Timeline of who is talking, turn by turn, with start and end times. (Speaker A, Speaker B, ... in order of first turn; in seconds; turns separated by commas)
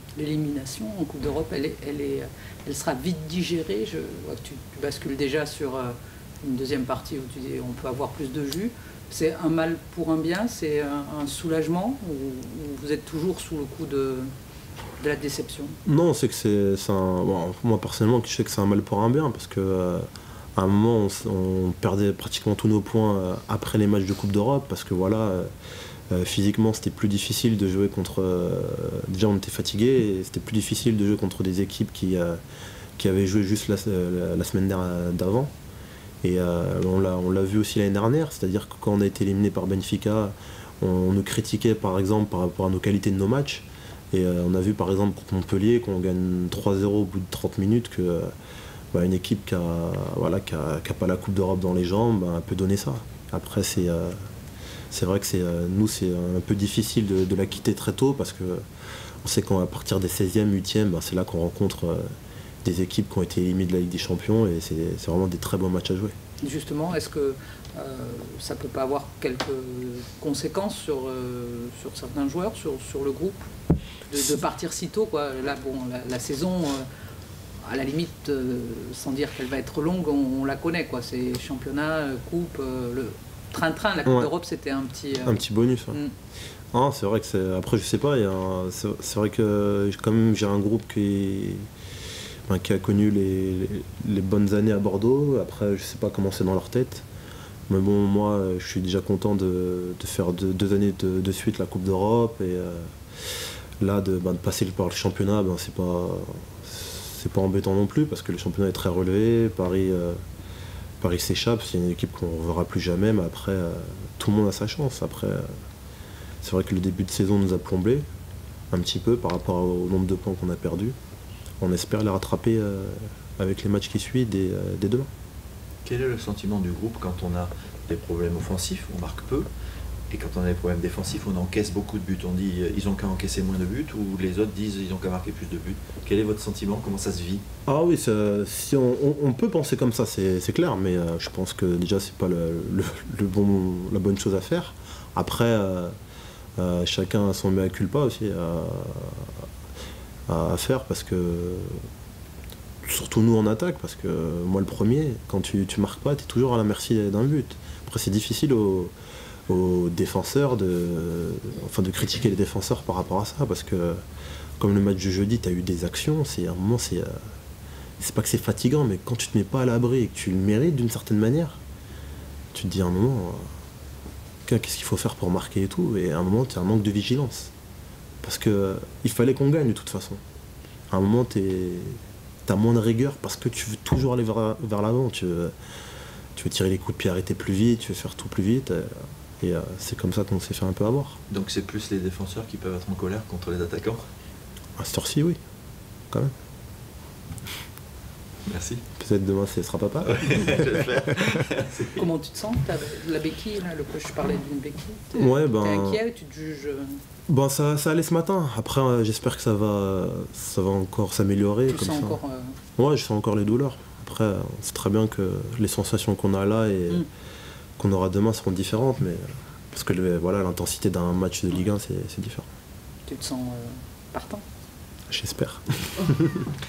Speaker A: 0.2-14.3, Speaker A: 15.0-15.8, Speaker B: 15.9-25.5, Speaker B: 26.1-32.4, Speaker B: 33.0-35.5, Speaker B: 36.2-48.3, Speaker B: 48.9-54.2, Speaker B: 54.9-58.6, Speaker B: 59.2-62.1, Speaker B: 62.6-66.1, Speaker A: 66.4-73.4, Speaker A: 74.1-76.9, Speaker A: 77.6-86.1, Speaker B: 84.0-84.3, Speaker B: 85.2-86.0, Speaker B: 86.7-91.7, Speaker B: 92.5-97.1, Speaker B: 97.7-110.2, Speaker B: 111.0-115.6, Speaker B: 116.4-118.1, Speaker B: 118.7-121.0, Speaker B: 121.6-125.1, Speaker C: 125.8-129.5, Speaker C: 130.1-137.4, Speaker B: 137.7-145.9, Speaker B: 146.6-149.4, Speaker B: 150.3-151.9, Speaker B: 152.8-158.9, Speaker B: 159.5-164.0, Speaker B: 164.6-167.2, Speaker B: 168.0-171.6, Speaker B: 172.5-173.5, Speaker B: 174.4-177.5, Speaker B: 178.2-180.2, Speaker B: 180.9-185.5, Speaker B: 186.4-191.2, Speaker C: 191.3-194.1, Speaker B: 194.8-195.4, Speaker C: 198.5-198.8, Speaker B: 199.0-200.6, Speaker C: 200.1-202.1, Speaker A: 201.9-207.0, Speaker B: 205.2-206.0, Speaker B: 207.3-212.2, Speaker A: 211.7-212.6, Speaker B: 212.8-217.1, Speaker B: 217.8-222.5, Speaker A: 223.1-224.4, Speaker B: 225.1-226.5